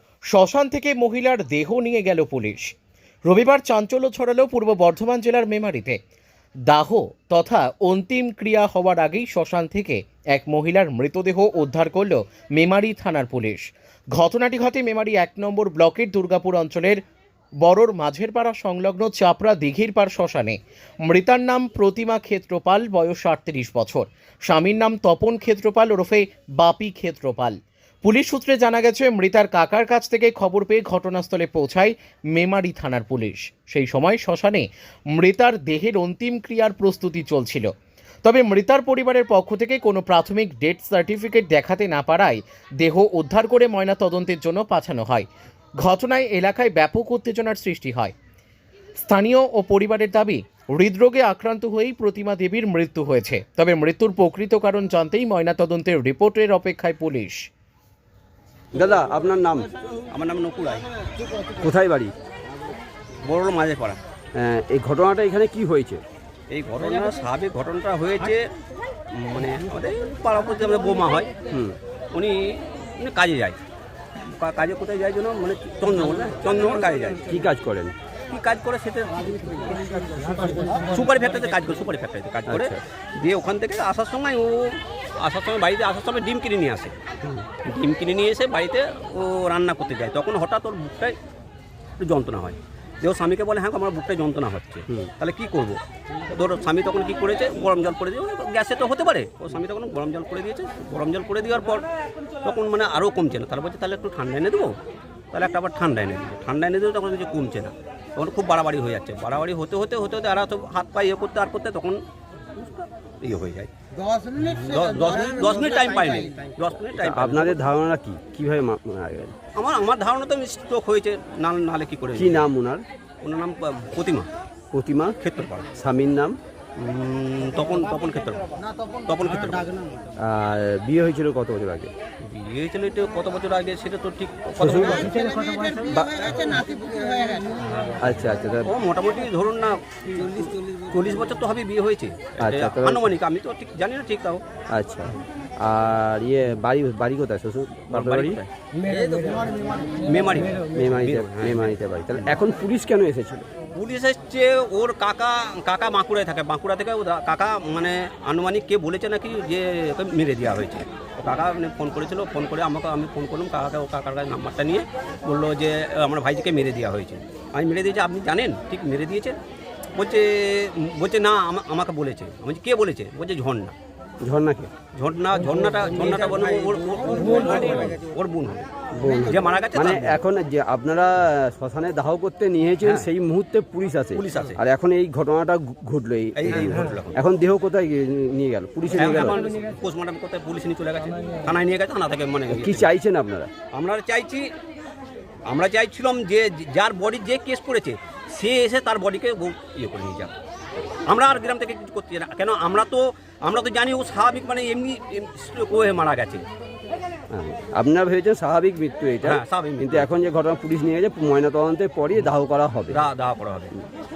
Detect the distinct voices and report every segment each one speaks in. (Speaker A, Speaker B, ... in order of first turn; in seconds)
Speaker A: 0.3-2.7, 3.3-6.0, 6.7-17.0, 17.6-37.7, 38.2-45.3, 45.8-48.1, 49.0-57.5
Speaker B: 58.7-59.7, 61.6-62.1, 64.3-66.0, 71.5-71.8, 77.3-78.0, 82.5-82.8, 117.0-119.4, 122.2-122.8, 124.7-125.2, 125.8-126.4, 130.2-131.9, 134.6-135.2, 135.9-136.6, 138.0-138.7, 142.4-143.1, 144.7-148.4, 150.7-153.5, 174.2-174.7, 178.9-189.4, 192.5-193.5, 207.3-213.0
Speaker C: 60.1-60.9, 63.2-64.0, 66.5-68.4, 69.1-71.3, 72.1-73.6, 74.2-77.3, 78.3-87.0, 87.6-91.2, 92.0-95.8, 96.3-101.9, 102.4-104.7, 105.3-112.0, 112.6-113.7, 114.4-117.6, 119.5-122.5, 123.2-124.3, 125.2-125.7, 126.8-128.5, 129.1-129.7, 132.2-136.1, 137.6-138.1, 138.6-144.4, 147.9-152.4, 153.8-169.4, 169.9-173.7, 174.9-180.2, 184.2-184.6, 186.4-187.2, 188.9-192.9, 193.7-194.5, 195.5-200.3, 201.1-206.5, 209.2-210.1, 212.9-213.8